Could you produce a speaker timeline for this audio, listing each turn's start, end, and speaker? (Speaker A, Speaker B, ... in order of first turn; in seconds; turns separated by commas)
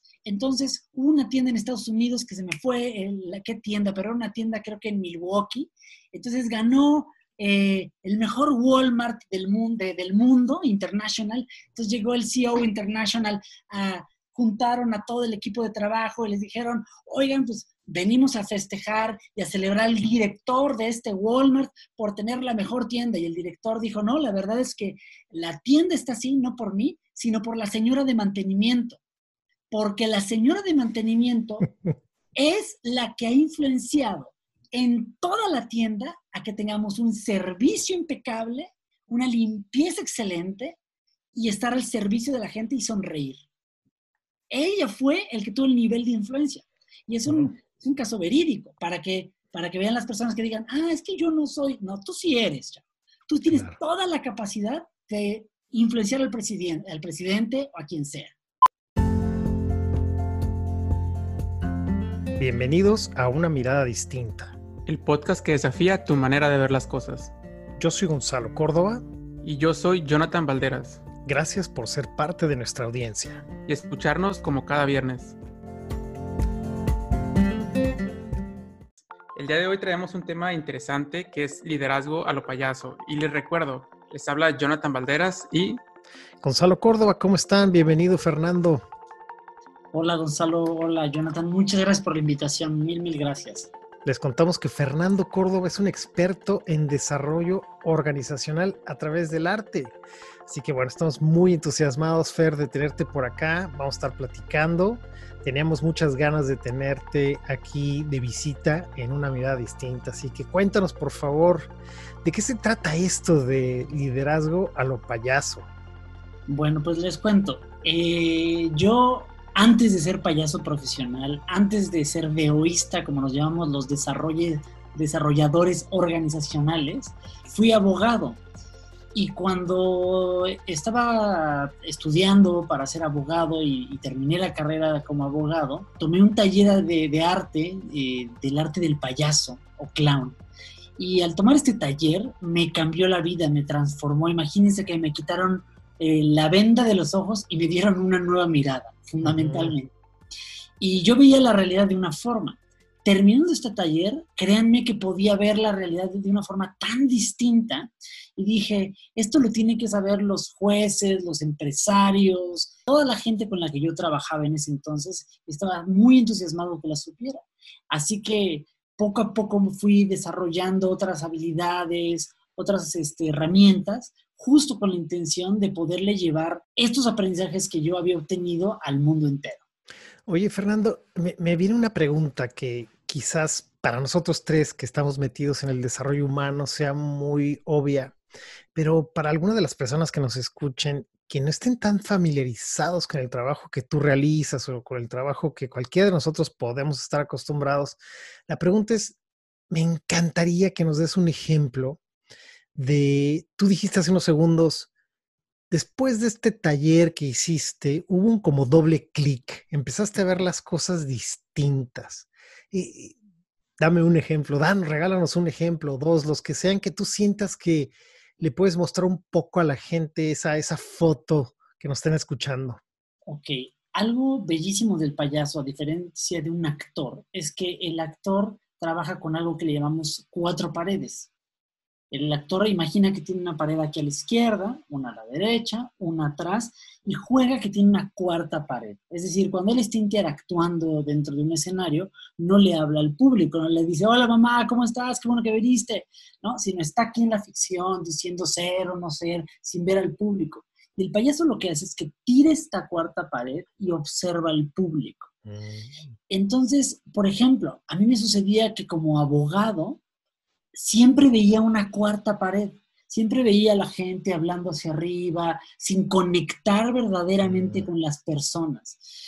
Speaker A: 0.3-29.0, Speaker A: 29.7-31.7, Speaker A: 32.4-40.8, Speaker A: 41.3-43.4, Speaker A: 44.5-58.3, Speaker B: 47.3-47.5, Speaker B: 53.5-53.8, Speaker B: 62.4-64.6, Speaker C: 64.9-67.3, Speaker B: 67.8-69.0, Speaker C: 69.4-71.0, Speaker B: 71.2-73.5, Speaker C: 73.7-75.4, Speaker C: 79.3-85.8, Speaker B: 86.4-88.8, Speaker A: 89.9-93.7, Speaker B: 94.0-100.0, Speaker B: 100.5-111.7, Speaker B: 112.2-115.7, Speaker A: 116.5-128.4, Speaker A: 129.2-140.4, Speaker A: 141.0-149.9, Speaker B: 149.2-149.8, Speaker A: 150.8-179.6, Speaker B: 180.3-188.2, Speaker B: 188.8-199.2, Speaker B: 199.7-202.0, Speaker B: 202.8-204.9, Speaker B: 205.7-213.2, Speaker B: 213.8-222.8, Speaker A: 223.3-231.3, Speaker A: 232.1-255.3, Speaker B: 255.5-256.0, Speaker A: 256.3-260.0, Speaker A: 260.8-269.0, Speaker B: 267.4-267.9